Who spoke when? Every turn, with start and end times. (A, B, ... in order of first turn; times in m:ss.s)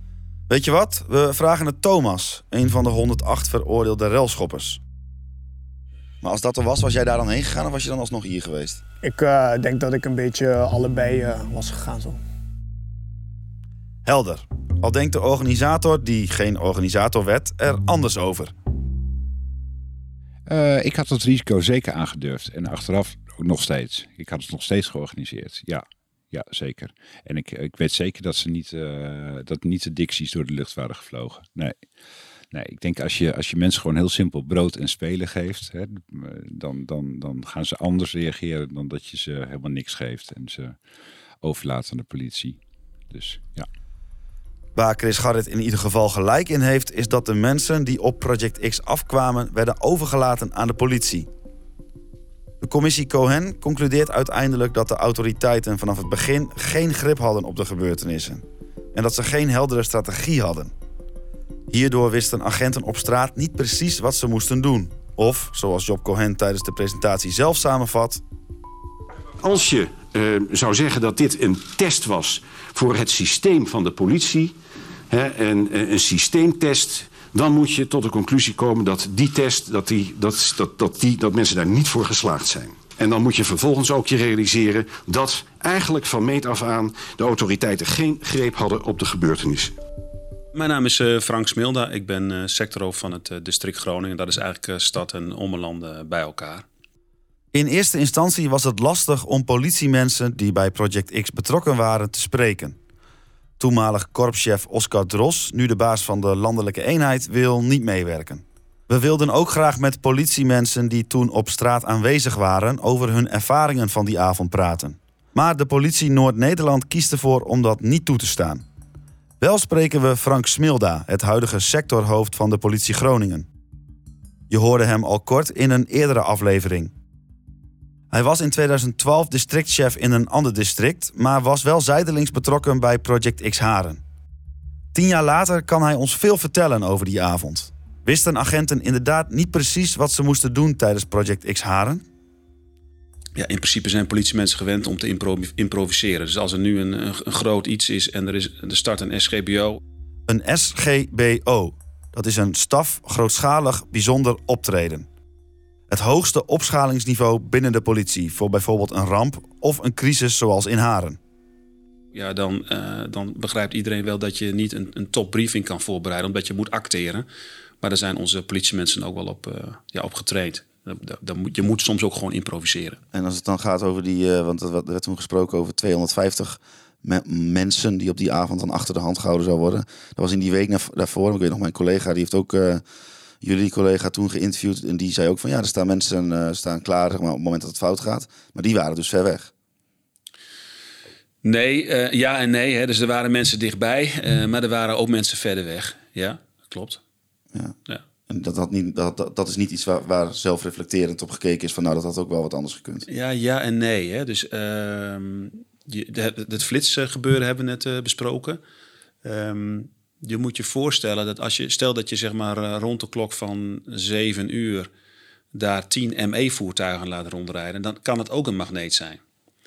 0:00.5-0:04.8 A
0:06.2-0:08.8 A
0:09.0-0:12.2 B
0:14.0-0:18.5 A
0:20.5-0:31.8 C
0:32.5-0:40.8 C
0:41.4-0:42.6 C
0:43.1-0:43.7 C
0:44.8-0:51.3 A
0:52.6-1:00.7 A
1:01.7-1:08.2 A
1:09.4-1:14.6 D
1:15.1-1:29.7 D
1:30.5-1:36.6 E
1:37.5-1:42.8 A
1:43.6-1:58.6 A
1:59.4-2:03.5 A
2:04.5-2:06.9 A
2:08.1-2:14.0 A
2:14.9-2:22.0 A
2:23.4-2:29.8 E
2:30.3-2:35.1 A
2:35.9-2:41.2 A
2:42.1-2:47.3 E
2:47.8-2:53.0 E
2:53.1-3:02.8 A
3:03.4-3:09.5 A
3:11.4-3:17.0 E
3:18.3-3:23.1 A
3:23.1-3:28.6 E
3:29.2-3:34.9 E
3:35.5-3:39.2 E